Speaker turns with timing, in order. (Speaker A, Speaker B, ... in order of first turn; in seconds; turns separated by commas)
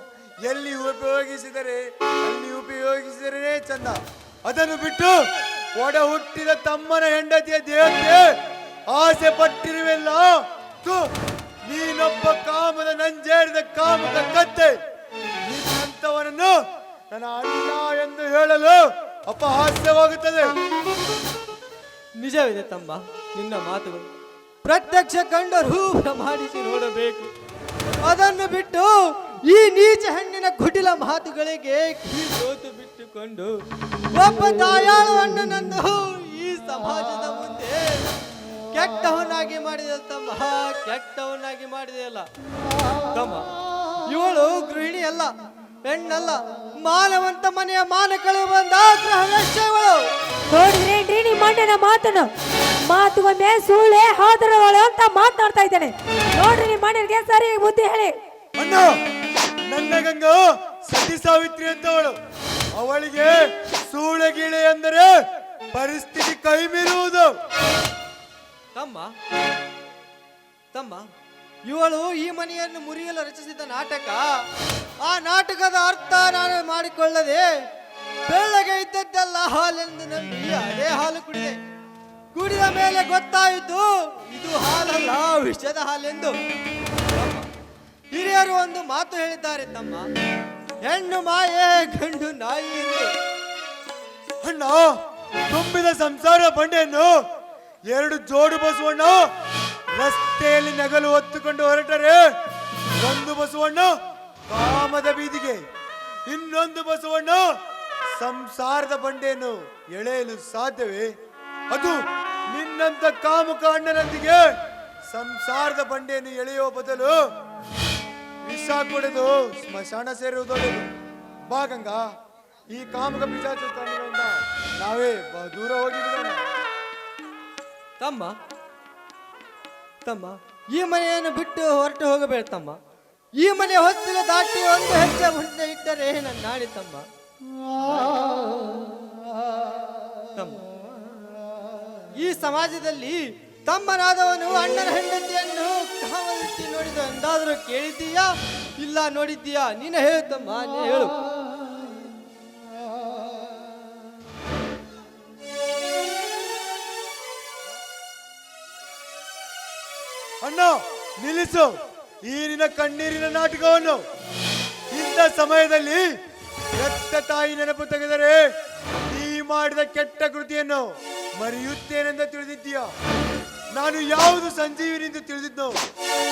Speaker A: 0.4-5.2, Speaker A: 5.8-8.3, Speaker A: 8.9-11.1, Speaker A: 11.6-14.8, Speaker A: 15.4-16.6, Speaker A: 17.1-20.5, Speaker B: 22.2-24.0, Speaker B: 24.6-27.3, Speaker B: 28.0-28.9, Speaker B: 29.5-33.5, Speaker B: 34.1-38.0, Speaker B: 38.7-42.2, Speaker B: 43.1-43.5, Speaker B: 44.0-45.3, Speaker B: 45.8-50.0, Speaker C: 50.5-52.3, Speaker C: 52.9-58.1, Speaker A: 58.6-58.9, Speaker A: 59.7-62.1, Speaker A: 62.7-65.1, Speaker A: 65.7-67.3, Speaker B: 68.7-69.1, Speaker B: 70.7-71.0, Speaker B: 71.7-74.3, Speaker B: 75.0-77.5, Speaker B: 78.3-81.5, Speaker B: 82.3-86.3, Speaker B: 87.1-87.5, Speaker B: 88.1-90.1, Speaker B: 90.8-93.1, Speaker A: 94.4-94.9, Speaker A: 95.5-97.2, Speaker A: 97.9-99.2, Speaker A: 99.9-102.2, Speaker A: 103.0-103.9, Speaker A: 104.5-105.6, Speaker A: 106.3-107.5, Speaker A: 108.2-111.1, Speaker A: 111.7-112.0, Speaker A: 112.5-114.4, Speaker A: 115.1-117.2, Speaker A: 118.4-120.9, Speaker A: 121.5-122.0, Speaker A: 122.7-126.4, Speaker B: 128.0-128.3, Speaker B: 130.1-132.8, Speaker B: 133.4-137.1, Speaker B: 140.3-140.6, Speaker B: 142.2-151.2, Speaker A: 160.4-161.7, Speaker A: 162.2-164.0, Speaker A: 164.9-166.0, Speaker A: 166.8-168.4, Speaker A: 169.1-172.9, Speaker A: 173.7-175.8